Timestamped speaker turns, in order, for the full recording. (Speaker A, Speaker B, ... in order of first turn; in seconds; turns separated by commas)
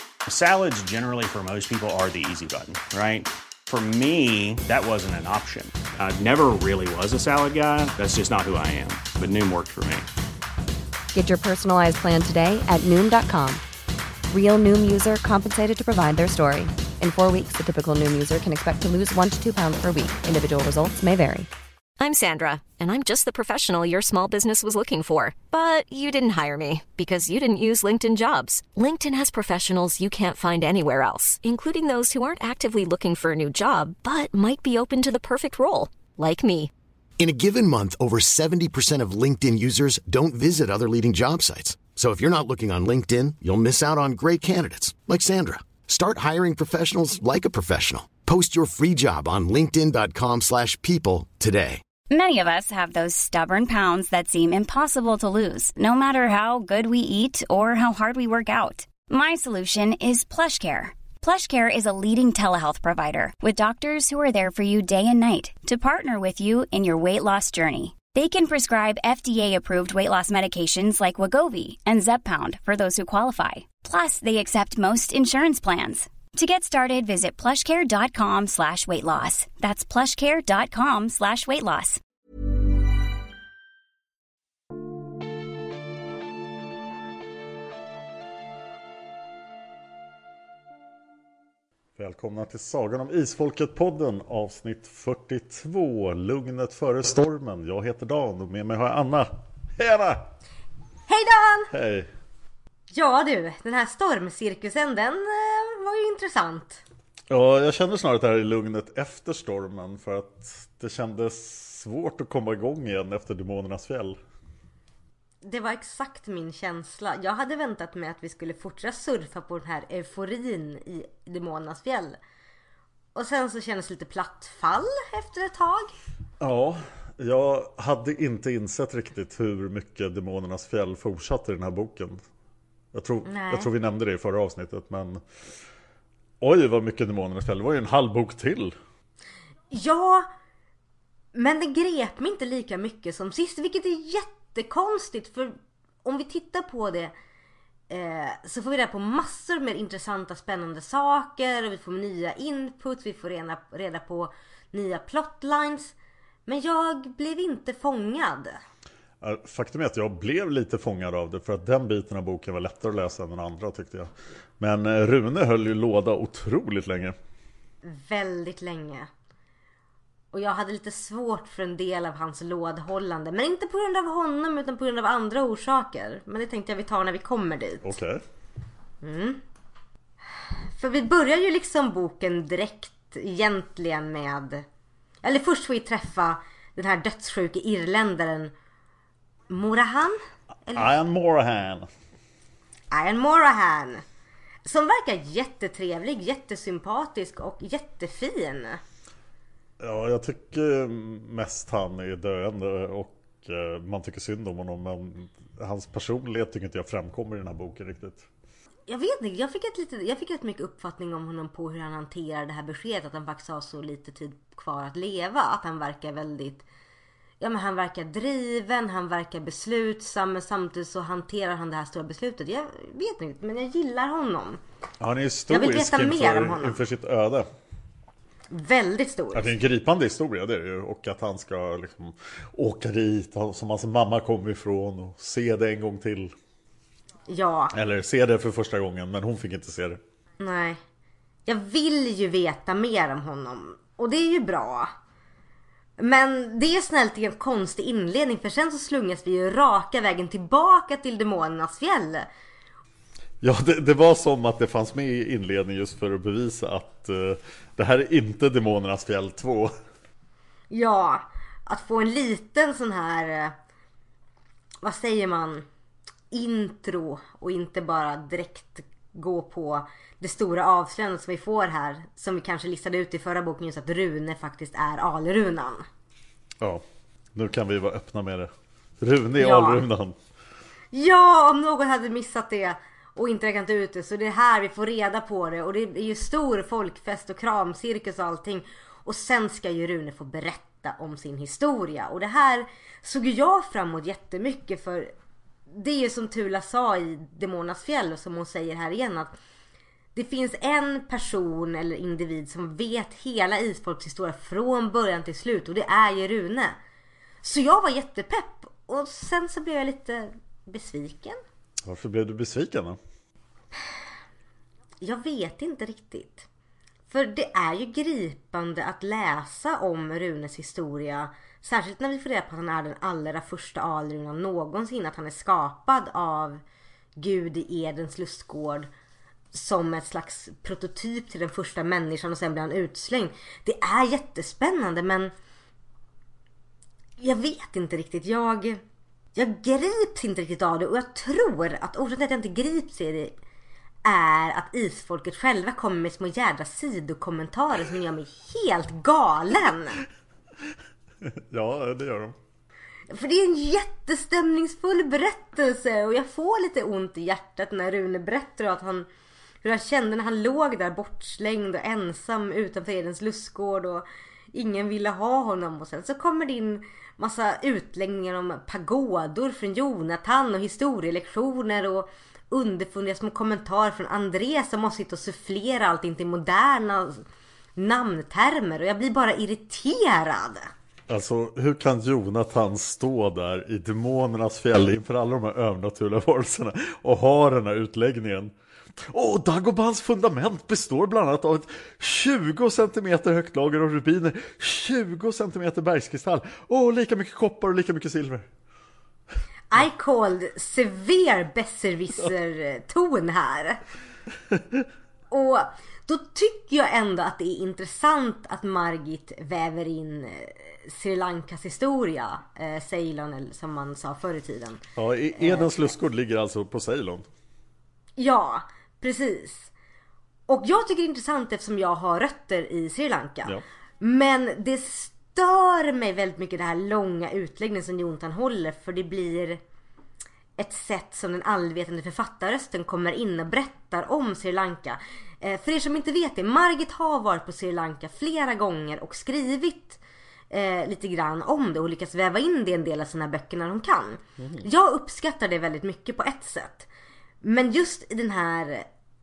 Speaker A: 0.3-10.1, Speaker B: 11.1-13.6, Speaker B: 14.3-21.5, Speaker C: 22.0-36.7, Speaker D: 37.2-51.8, Speaker E: 52.1-82.0, Speaker F: 92.0-100.2, Speaker G: 101.1-101.7, Speaker F: 101.7-102.1, Speaker G: 102.9-106.8, Speaker F: 107.3-114.2, Speaker G: 115.4-122.2, Speaker G: 123.1-125.9, Speaker F: 126.4-132.2, Speaker F: 132.9-135.2, Speaker G: 133.2-133.7, Speaker F: 136.4-138.8, Speaker G: 139.7-140.3, Speaker G: 141.3-147.1, Speaker G: 147.9-155.9, Speaker G: 156.5-158.6, Speaker F: 159.2-167.2, Speaker G: 167.8-169.1, Speaker G: 170.3-178.0, Speaker F: 177.8-178.2, Speaker G: 179.0-179.4, Speaker G: 180.8-184.6, Speaker G: 185.2-188.5, Speaker G: 189.5-190.9, Speaker F: 190.7-191.9, Speaker G: 192.9-194.0, Speaker G: 194.7-198.8, Speaker F: 199.8-208.2, Speaker G: 208.9-216.6, Speaker G: 217.4-224.6, Speaker F: 225.0-227.4, Speaker G: 225.5-226.8, Speaker G: 228.5-229.6, Speaker F: 229.3-236.3, Speaker G: 237.3-237.7, Speaker F: 237.7-240.0, Speaker G: 240.4-240.8, Speaker G: 241.4-244.9, Speaker G: 246.0-252.2, Speaker F: 253.4-259.7, Speaker G: 260.7-263.5, Speaker G: 264.8-265.6, Speaker G: 266.3-275.9, Speaker F: 276.6-280.1, Speaker G: 279.4-279.8, Speaker G: 280.9-295.1, Speaker G: 295.7-299.3, Speaker G: 300.1-306.8, Speaker G: 307.4-311.4, Speaker F: 311.8-313.0, Speaker G: 315.0-316.5, Speaker G: 317.1-326.6, Speaker G: 327.2-328.9, Speaker G: 329.5-335.3, Speaker G: 337.2-338.8, Speaker G: 339.3-343.3, Speaker G: 344.0-350.0, Speaker F: 351.2-352.4, Speaker G: 353.1-359.1, Speaker G: 359.6-377.2, Speaker G: 377.8-380.7, Speaker F: 381.1-398.5, Speaker G: 399.7-403.8, Speaker G: 405.3-414.8, Speaker F: 414.9-417.3, Speaker G: 415.4-415.7, Speaker G: 418.2-419.7, Speaker G: 420.5-429.6, Speaker G: 430.6-440.0, Speaker G: 440.5-446.9, Speaker F: 444.4-444.6, Speaker G: 447.4-448.9